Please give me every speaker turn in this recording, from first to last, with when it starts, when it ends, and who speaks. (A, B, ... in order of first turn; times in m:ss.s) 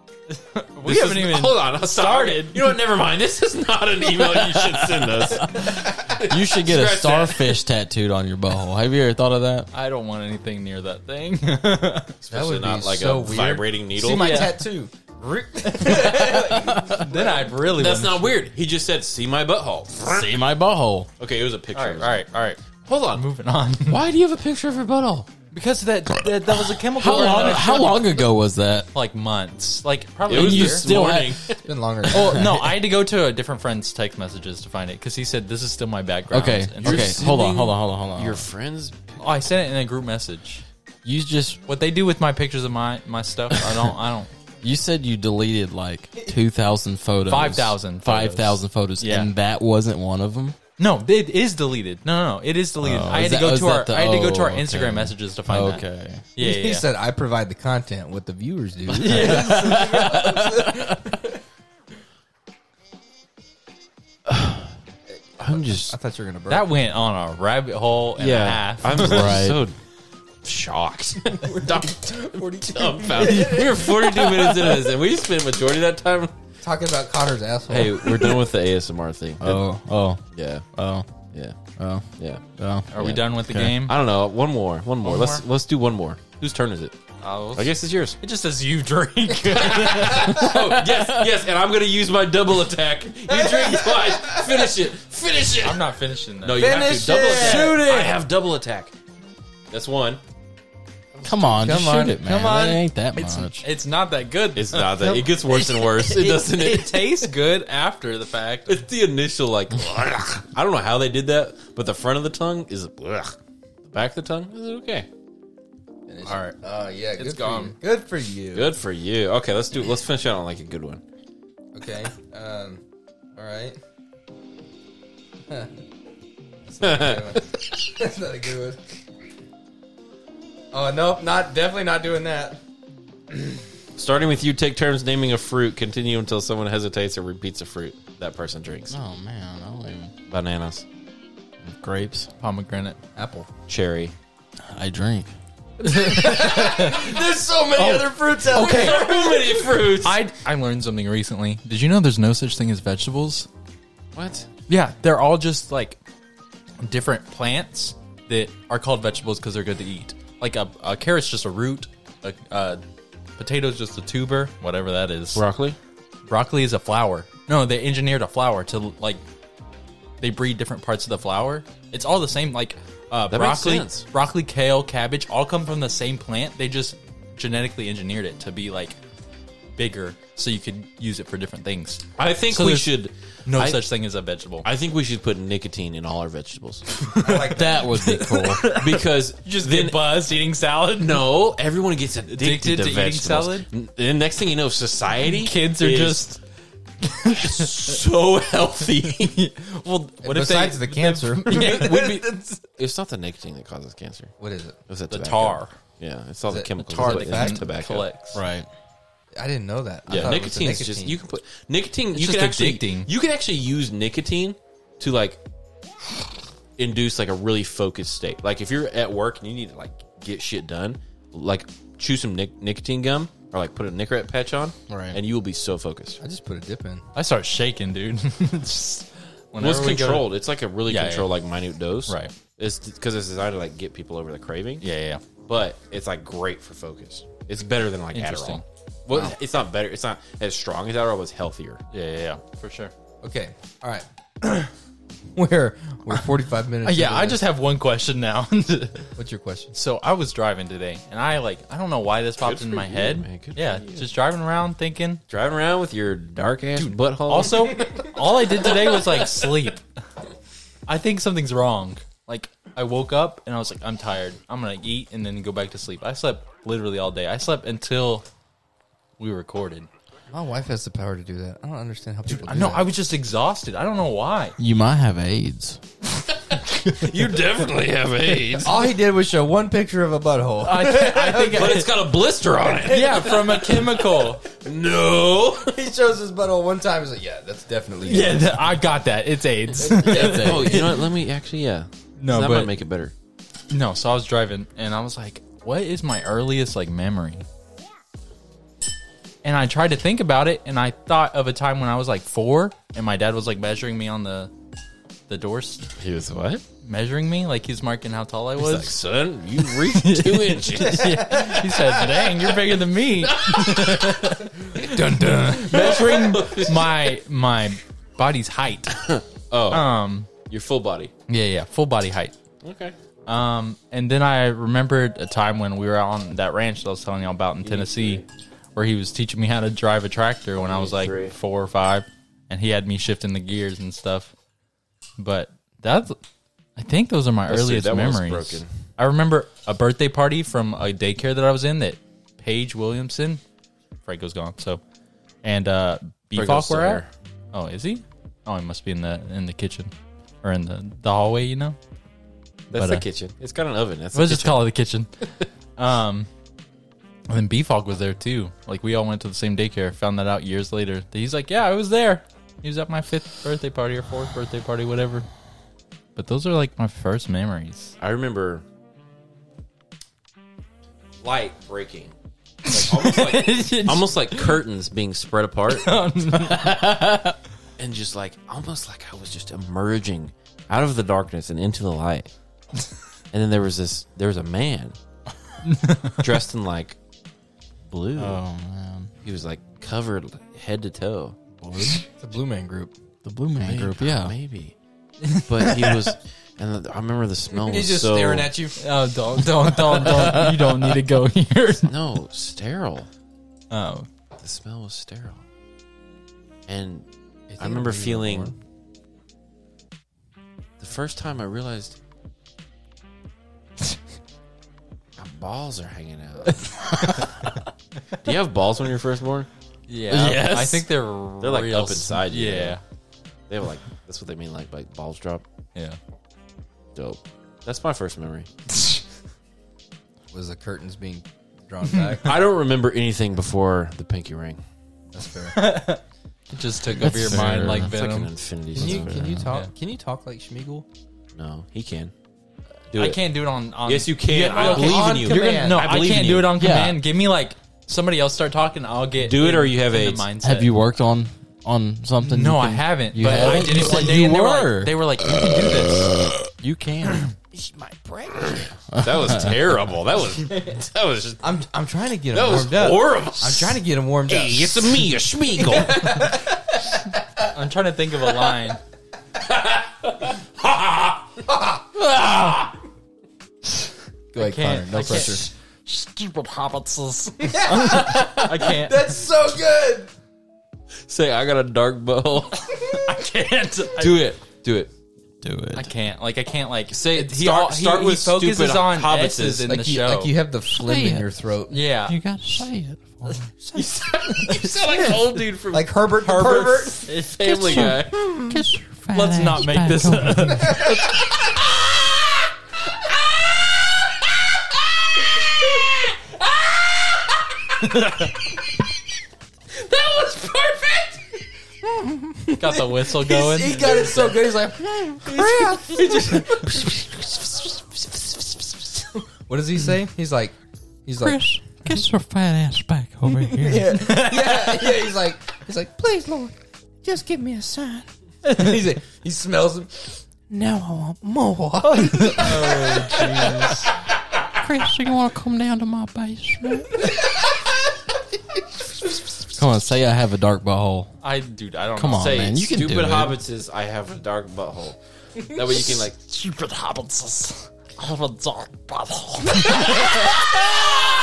0:00.3-0:02.7 A
0:00.8-0:07.5 B
0:04.6-0:05.7 C
0:06.2-0:09.7 C
0:09.7-0:12.1 A
0:12.2-0:14.6 B
0:12.3-0:17.4 D
0:14.1-0:14.5 C
0:16.1-0:17.0 C
0:16.9-0:18.2 A
0:17.7-0:20.3 B
0:20.0-0:21.1 C
0:21.2-0:22.2 B
0:21.7-0:22.6 A
0:22.8-0:23.2 B
0:23.1-0:24.0 A
0:23.9-0:25.3 B
0:25.5-0:28.2 A
0:27.0-0:28.9 C
0:27.3-0:27.5 B
0:28.9-0:31.0 A
0:30.3-0:31.4 C
0:30.3-0:31.7 B
0:31.6-0:32.4 D
0:32.1-0:32.8 C
0:32.1-0:37.2 A
0:36.3-0:38.4 C
0:36.8-0:39.0 B
0:39.2-0:40.6 A
0:41.0-0:41.6 C
0:41.7-0:44.3 A
0:44.6-0:50.6 C
0:47.3-0:49.3 A
0:50.8-0:55.8 A
0:52.8-0:56.2 C
0:56.3-0:56.9 A
0:56.4-1:01.4 D
0:58.9-1:01.0 C
0:58.9-1:00.2 A
1:04.3-1:04.7 B
1:05.4-1:06.0 B
1:05.5-1:06.7 D
1:06.5-1:09.5 A
1:08.2-1:09.7 B
1:08.9-1:09.6 C
1:10.4-1:16.3 B
1:11.4-1:14.9 D
1:16.6-1:18.4 D
1:17.7-1:19.6 B
1:19.4-1:20.2 C
1:20.3-1:20.6 B
1:20.7-1:21.1 C
1:21.8-1:22.0 C
1:22.6-1:23.8 C
1:22.9-1:24.0 A
1:23.9-1:27.0 B
1:25.0-1:25.4 A
1:27.2-1:30.5 A
1:27.5-1:28.2 B
1:29.3-1:35.8 B
1:30.1-1:31.3 C
1:33.3-1:34.6 D
1:35.6-1:36.8 A
1:36.4-1:38.9 B
1:36.6-1:37.9 D
1:37.2-1:38.2 C
1:39.7-1:40.2 B
1:41.2-1:42.8 D
1:41.2-1:43.6 C
1:43.2-1:48.8 A
1:44.5-1:47.3 B
1:48.7-1:55.1 B
1:56.1-1:58.7 D
1:57.2-1:57.7 B
1:58.5-2:01.0 B
2:01.7-2:02.8 D
2:03.4-2:03.8 D
2:05.5-2:05.7 D
2:06.7-2:08.8 D
2:06.8-2:07.4 B
2:10.7-2:12.6 D
2:14.0-2:18.9 B
2:18.9-2:20.1 C
2:20.3-2:20.8 B
2:21.6-2:22.3 C
2:22.4-2:23.0 A
2:23.2-2:23.5 D
2:23.7-2:24.1 B
2:24.6-2:25.3 C
2:25.8-2:27.2 A
2:25.8-2:29.8 D
2:27.8-2:29.1 A
2:28.4-2:30.2 B
2:30.0-2:33.5 A
2:34.1-2:34.5 B
2:34.7-2:36.0 A
2:36.8-2:42.8 A
2:43.4-2:45.4 A
2:45.3-2:45.8 B
2:46.3-2:49.2 A
2:50.2-2:59.0 A
2:53.3-2:54.0 B
2:59.8-3:02.9 A
3:02.2-3:03.8 B
3:03.4-3:04.7 A
3:04.6-3:07.0 B
3:07.2-3:07.9 D
3:07.4-3:08.6 C
3:07.9-3:11.3 A
3:08.7-3:10.1 B
3:11.0-3:16.3 B
3:12.3-3:13.7 A
3:15.3-3:16.4 A
3:17.0-3:18.0 A
3:17.3-3:19.3 B
3:19.2-3:22.6 A
3:20.2-3:22.5 D
3:21.5-3:22.0 B
3:22.8-3:24.3 B
3:24.4-3:24.8 D
3:24.9-3:28.1 B
3:25.1-3:25.7 A
3:26.5-3:27.6 D
3:27.0-3:28.4 A
3:28.3-3:28.7 C
3:29.3-3:31.2 D
3:30.1-3:35.4 B
3:32.1-3:33.1 A
3:36.8-3:46.2 B
3:44.9-3:45.2 C
3:46.2-3:47.0 D
3:47.1-3:50.3 A
3:49.6-3:54.8 B
3:50.9-3:51.3 A
3:52.1-3:52.3 A
3:54.8-3:55.2 A
3:55.4-4:01.8 B
3:58.1-3:58.6 A
4:01.9-4:02.9 A
4:03.2-4:04.7 D
4:05.3-4:07.4 D
4:06.8-4:09.1 A
4:09.2-4:09.7 D
4:09.7-4:15.2 A
4:12.4-4:14.1 B
4:15.3-4:18.0 B
4:16.8-4:19.8 A
4:20.9-4:28.2 A
4:29.2-4:29.9 A
4:30.3-4:32.9 D
4:32.3-4:34.6 A
4:34.6-4:35.8 C
4:36.9-4:38.8 B
4:38.6-4:41.8 D
4:40.6-4:41.9 A
4:41.4-4:45.7 B
4:42.8-4:44.4 A
4:43.0-4:43.4 D
4:45.7-4:48.6 D
4:48.1-4:51.0 A
4:49.8-4:50.9 C
4:50.1-4:53.1 B
4:52.2-4:52.7 A
4:53.7-4:57.4 A
4:59.4-5:04.5 A
5:05.3-5:05.9 A
5:06.0-5:06.6 B
5:06.8-5:09.0 A
5:08.6-5:12.6 B
5:09.6-5:14.5 A
5:11.0-5:11.8 D
5:13.2-5:17.1 B
5:14.7-5:16.3 D
5:15.4-5:19.0 A
5:18.9-5:19.9 B
5:19.7-5:20.3 A
5:20.5-5:21.1 B
5:21.3-5:22.3 A
5:22.6-5:22.9 B
5:23.3-5:28.2 A
5:27.6-5:28.2 B
5:28.7-5:34.3 A
5:30.6-5:31.3 B
5:35.2-5:36.2 A
5:36.8-5:43.4 A
5:37.5-5:38.7 B
5:44.0-5:44.8 A
5:45.4-5:49.9 A
5:46.3-5:47.1 B
5:50.4-5:51.8 A
5:52.7-5:54.7 B
5:52.7-5:53.0 A
5:54.1-5:55.1 A
5:55.2-5:55.5 B
5:55.8-5:56.3 A
5:57.3-6:05.2 A
6:06.2-6:07.9 A
6:08.0-6:08.6 B
6:11.2-6:12.1 B
6:12.6-6:14.6 A
6:12.7-6:15.9 B
6:15.7-6:17.0 A
6:16.3-6:17.4 C
6:17.8-6:22.3 B
6:23.3-6:24.9 B
6:25.6-6:26.2 A
6:26.2-6:27.0 B
6:27.9-6:28.4 B
6:28.2-6:29.1 C
6:29.2-6:31.4 B
6:31.6-6:32.0 C
6:32.1-6:32.9 D
6:33.2-6:34.3 C
6:33.6-6:34.7 B
6:35.2-6:36.1 A
6:35.3-6:38.5 B
6:37.5-6:40.1 D
6:38.8-6:41.9 A
6:39.9-6:40.8 C
6:41.8-6:43.1 B
6:43.7-6:44.1 A
6:44.4-6:45.4 B
6:46.7-6:47.0 B
6:47.5-6:48.6 D
6:47.6-6:48.5 B
6:50.8-6:52.0 B
6:55.2-6:56.8 B
6:57.0-6:57.4 A
6:58.2-6:59.5 B
6:59.9-7:02.8 A
7:00.1-7:00.9 C
7:01.4-7:02.8 B
7:03.5-7:05.4 B
7:07.0-7:08.5 B
7:10.3-7:12.4 D
7:12.2-7:14.6 B
7:15.1-7:15.8 D
7:15.5-7:18.3 A
7:16.9-7:17.9 C
7:17.6-7:19.3 B
7:18.7-7:20.8 D
7:18.8-7:19.4 C
7:19.4-7:19.7 A
7:21.4-7:22.1 B
7:22.9-7:30.7 A
7:22.9-7:23.2 B
7:23.8-7:26.5 B
7:24.3-7:25.9 D
7:26.5-7:27.0 C
7:29.2-7:30.3 B
7:30.4-7:34.9 C
7:32.2-7:36.2 A
7:33.2-7:33.9 B
7:36.6-7:37.3 C
7:37.5-7:38.6 D
7:38.6-7:41.5 B
7:38.9-7:39.6 C
7:41.4-7:47.1 D
7:42.3-7:46.4 B
7:47.5-7:48.8 A
7:49.4-7:51.2 B
7:51.4-7:51.9 D
7:51.9-7:52.7 C
7:54.3-7:55.4 D
7:54.4-7:59.1 A
7:55.0-7:55.3 B
7:57.4-8:00.1 D
8:01.1-8:02.7 B
8:02.9-8:04.3 A
8:04.0-8:04.9 B
8:05.4-8:05.9 C
8:05.7-8:10.3 A
8:06.9-8:09.7 B
8:09.7-8:11.8 D
8:10.7-8:11.3 C
8:11.7-8:12.2 A
8:12.0-8:13.4 C
8:13.6-8:15.2 D
8:13.7-8:18.3 B
8:15.7-8:17.0 D
8:17.0-8:17.5 A
8:17.4-8:20.9 C
8:18.1-8:18.6 D
8:19.1-8:21.2 A
8:20.6-8:21.3 D
8:23.3-8:23.6 D
8:25.2-8:27.2 D
8:27.8-8:28.2 D
8:29.8-8:41.5 D
8:32.6-8:34.2 A
8:35.3-8:36.4 C
8:41.2-8:43.9 C
8:43.4-8:53.8 D
8:43.9-8:44.9 A
8:52.0-8:53.9 A
8:54.6-8:57.1 C
8:57.0-8:57.5 D
8:59.5-9:01.1 C
9:01.2-9:02.5 A
9:02.0-9:03.4 C
9:02.1-9:06.2 B
9:05.8-9:11.0 A